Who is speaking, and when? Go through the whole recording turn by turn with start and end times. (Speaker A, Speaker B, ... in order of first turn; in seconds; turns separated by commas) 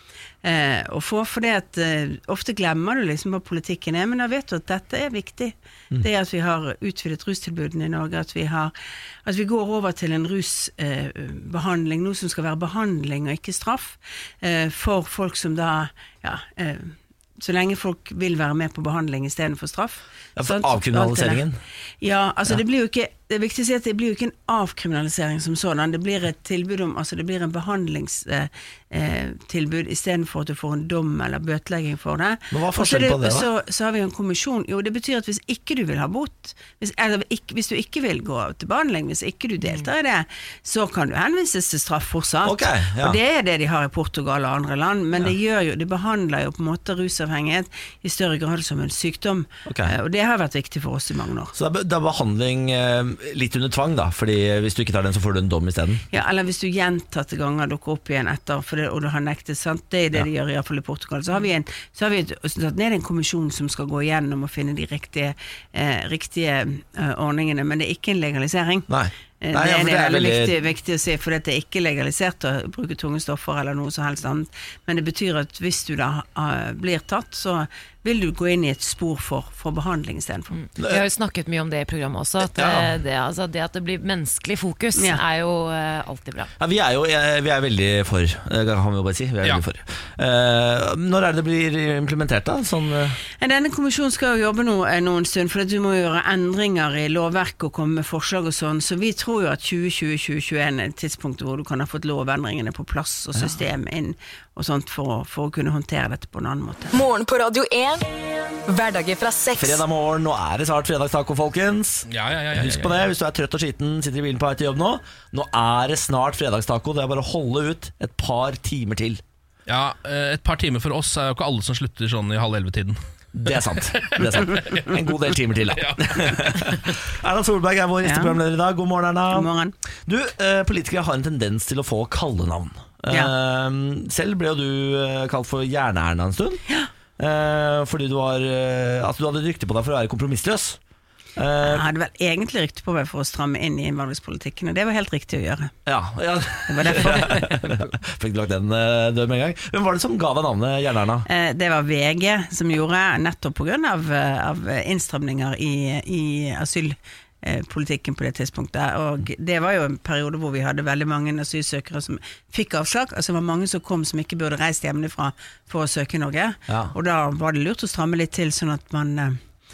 Speaker A: 0.4-8.7, Speaker A: 9.2-21.4, Speaker B: 20.4-21.6, Speaker A: 22.0-51.5, Speaker B: 32.5-33.5, Speaker B: 42.4-43.2, Speaker B: 49.7-49.9, Speaker B: 51.5-56.0, Speaker A: 56.1-68.9, Speaker B: 68.9-70.6, Speaker A: 69.4-80.6, Speaker C: 80.5-86.5, Speaker B: 82.5-82.9, Speaker A: 85.0-85.2, Speaker B: 86.6-93.2, Speaker A: 93.4-106.9, Speaker B: 103.3-103.7, Speaker D: 106.9-108.0, Speaker D: 108.7-109.8, Speaker B: 109.6-119.2, Speaker E: 112.1-113.1, Speaker E: 119.7-123.0, Speaker B: 123.3-129.5, Speaker E: 123.9-124.9, Speaker E: 125.8-126.8, Speaker A: 128.0-128.4, Speaker A: 129.3-129.8, Speaker B: 130.1-136.6, Speaker B: 137.2-140.8, Speaker B: 141.4-141.9, Speaker A: 141.6-145.7, Speaker B: 145.9-151.3, Speaker A: 146.7-147.8, Speaker A: 151.3-169.4, Speaker B: 166.7-166.9